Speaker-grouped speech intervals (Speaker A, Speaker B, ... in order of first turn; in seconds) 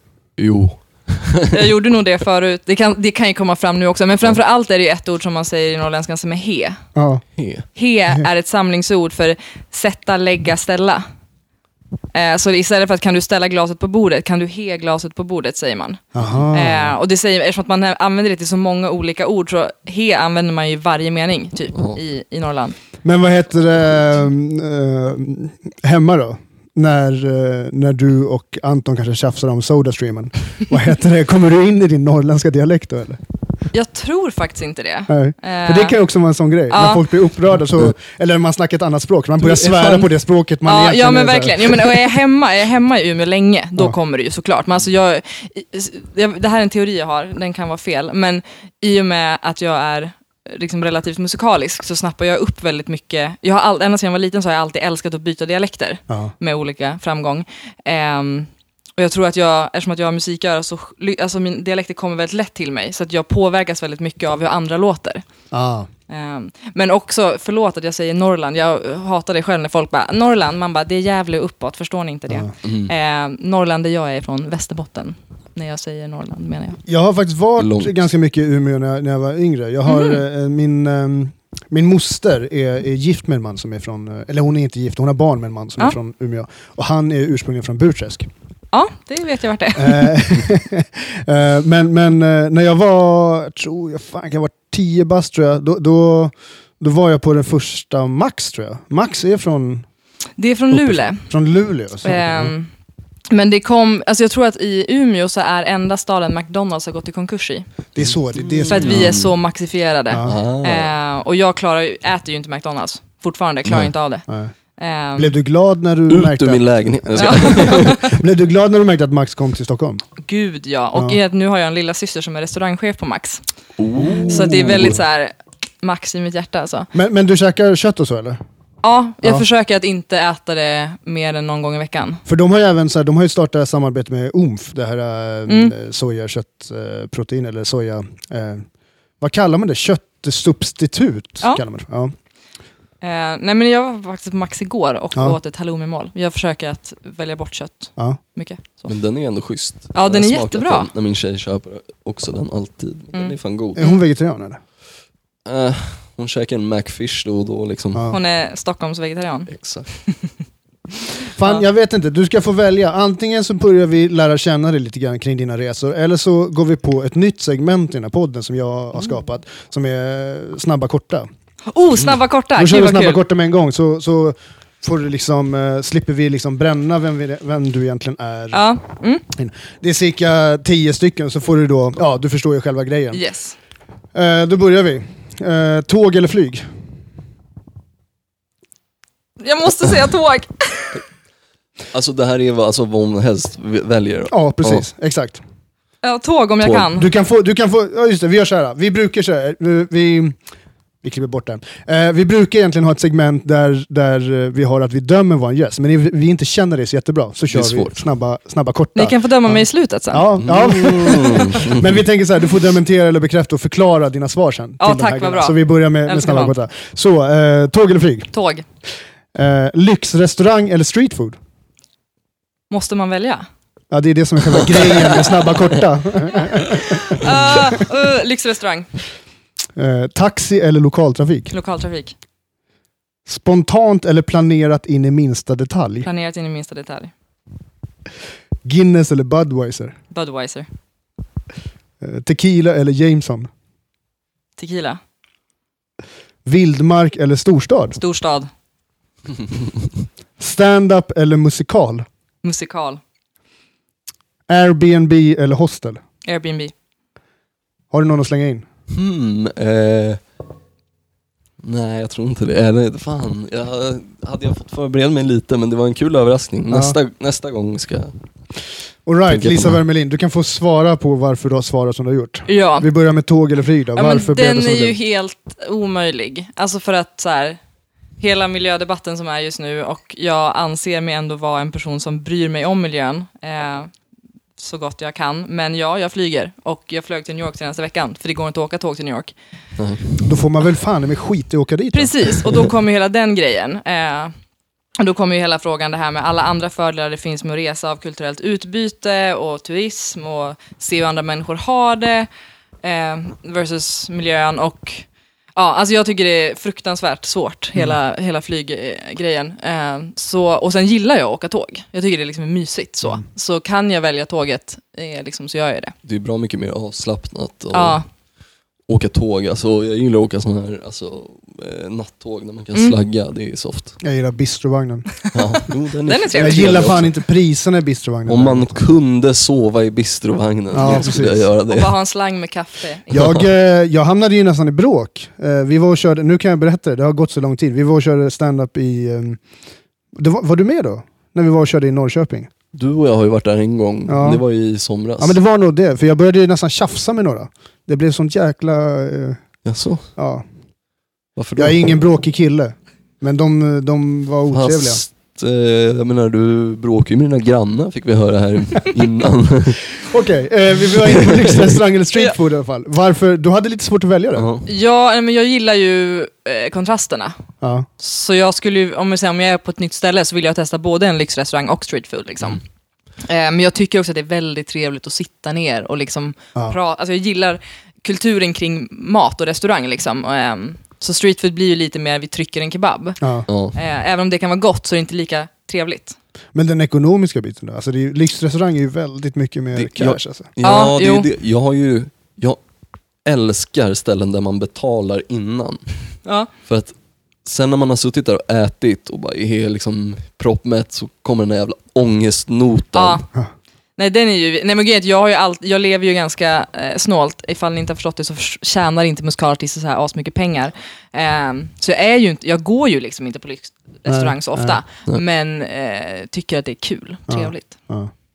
Speaker A: 0.4-1.7, 7.4-7.7, 39.5-40.0, 72.6-72.9, 77.6-77.9, 108.0-109.3, 110.2-110.9, 113.7-113.9, 116.1-118.0, 123.8-125.0, 148.9-153.8, 155.4-158.0, 159.5-159.9, 191.9-194.8, 207.5-208.0, 210.4-212.0, 258.9-260.2, 261.6-268.1, 269.3-269.8, 289.8-290.1, 316.0-318.0, 318.9-324.0, 325.3-327.2, 328.3-331.9, 333.1-333.5, 342.7-345.4, 349.6-350.1, 351.4-351.9, 354.5-359.8, 360.9-361.8, 364.4-364.7, 383.5-383.8, 389.8-392.6, 393.2-395.9, 396.7-403.2
Speaker B: 1.5-6.8, 7.8-11.0, 12.1-16.0, 16.5-22.8, 33.7-36.0, 36.7-37.0, 40.6-65.2, 66.1-76.8, 79.9-80.2, 88.7-90.1, 100.4-101.2, 102.0-102.7, 103.3-107.7, 108.7-114.2, 114.8-115.3, 117.2-118.1, 120.2-123.4, 124.2-126.9, 128.8-132.2, 135.5-135.7, 143.0-148.9, 149.9-150.9, 153.1-154.0, 158.1-159.5, 171.7-173.2, 178.5-179.2, 183.1-183.6, 189.4-191.0, 196.0-197.1, 209.0-210.3, 214.8-216.5, 218.3-218.6, 222.7-223.5, 226.7-228.9, 231.5-232.1, 236.0-237.1, 240.1-240.7, 244.6-245.0, 248.0-248.5, 252.4-253.0, 256.2-256.7, 272.5-272.9, 274.0-277.6, 278.2-283.9, 284.6-289.3, 291.9-294.3, 295.0-302.3, 302.8-315.9, 317.7-318.1, 326.1-327.0, 331.7-333.4, 364.7-367.4, 368.0-372.6, 373.2-383.2, 383.7-386.2, 390.6-391.3, 396.2-396.5, 402.9-403.3, 404.0-417.7
Speaker C: 7.0-7.2, 16.1-16.9, 23.0-33.2, 35.1-42.1, 65.5-65.9, 76.9-88.3, 89.8-99.8, 100.7-102.5, 108.0-109.2, 110.1-110.4, 114.3-114.5, 115.2-120.0, 124.0-125.0, 126.9-128.4, 132.3-138.6, 139.2-142.1, 153.8-154.6, 157.9-158.2, 161.4-171.3, 172.6-178.6, 179.3-183.2, 184.1-186.7, 194.3-195.4, 196.9-200.4, 201.0-218.3, 219.3-221.4, 223.9-227.6, 229.8-231.5, 233.3-236.1, 238.7-240.0, 242.0-243.5, 246.4-248.0, 250.4-252.1, 254.5-256.0, 257.9-258.6, 266.7-267.0, 269.1-275.0, 290.2-292.4, 324.0-325.2, 326.3-328.8, 330.7-331.5, 333.1-339.4, 340.1-342.5, 344.1-344.4, 345.2-349.4, 350.2-350.4, 351.6-355.0, 360.0-364.5, 367.6-367.9, 383.2-383.5, 386.5-390.5, 414.1-414.8, 417.3-418.1